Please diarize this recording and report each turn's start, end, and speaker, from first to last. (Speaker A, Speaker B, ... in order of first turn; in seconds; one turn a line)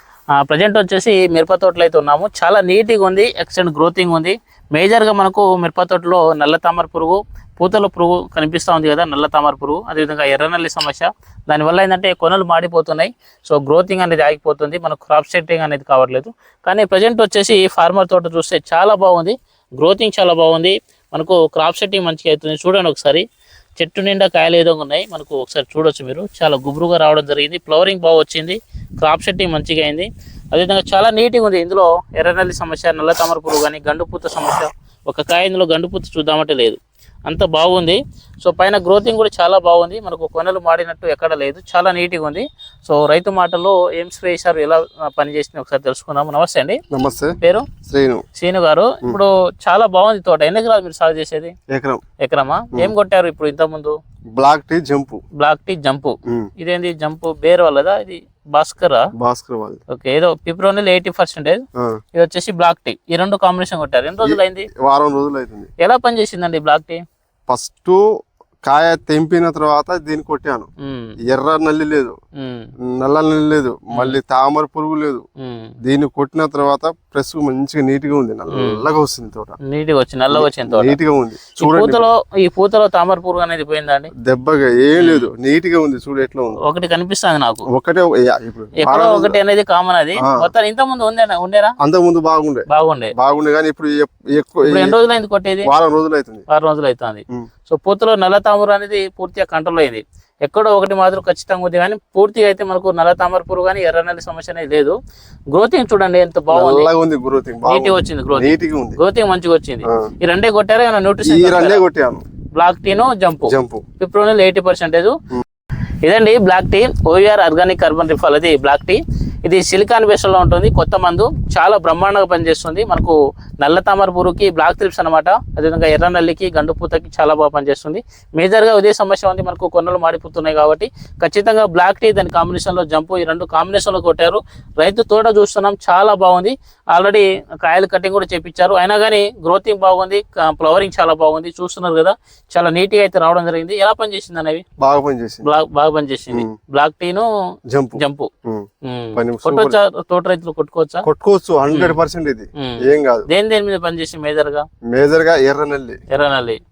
Speaker A: 0.4-23.2
Speaker A: 23.8-46.8
Speaker B: 46.9-48.2
Speaker A: 47.4-47.7
Speaker A: 48.4-51.5
Speaker B: 51.7-52.0
Speaker A: 52.2-54.0
Speaker B: 54.3-55.2
Speaker A: 55.4-59.1
Speaker B: 59.2-59.8
Speaker A: 59.9-61.6
Speaker A: 62.1-64.7
Speaker B: 64.2-65.7
Speaker A: 65.8-67.0
Speaker B: 67.5-68.0
Speaker B: 68.6-70.7
Speaker A: 70.8-71.1
Speaker B: 71.2-72.1
Speaker A: 72.4-72.7
Speaker B: 73.0-75.2
Speaker A: 73.9-74.2
Speaker A: 75.4-75.7
Speaker B: 75.8-79.6
Speaker A: 78.5-78.8
Speaker A: 79.7-81.0
Speaker B: 80.3-82.1
Speaker A: 81.6-84.1
Speaker B: 84.2-86.6
Speaker A: 85.0-85.3
Speaker A: 86.6-87.7
Speaker B: 87.7-89.4
Speaker A: 88.8-91.7
Speaker B: 91.8-94.9
Speaker A: 92.7-93.1
Speaker A: 94.6-95.7
Speaker B: 95.6-96.4
Speaker A: 96.5-104.9
Speaker A: 105.5-106.9
Speaker B: 106.5-109.0
Speaker A: 107.7-111.8
Speaker B: 109.9-110.1
Speaker B: 111.2-112.2
Speaker A: 112.5-115.1
Speaker B: 113.5-113.8
Speaker A: 116.0-144.6
Speaker B: 144.8-145.4
Speaker A: 145.4-147.2
Speaker B: 147.7-149.8
Speaker A: 148.0-148.3
Speaker A: 148.8-151.0
Speaker B: 151.0-153.3
Speaker A: 151.7-152.0
Speaker A: 152.6-154.6
Speaker B: 154.9-156.0
Speaker A: 156.1-156.6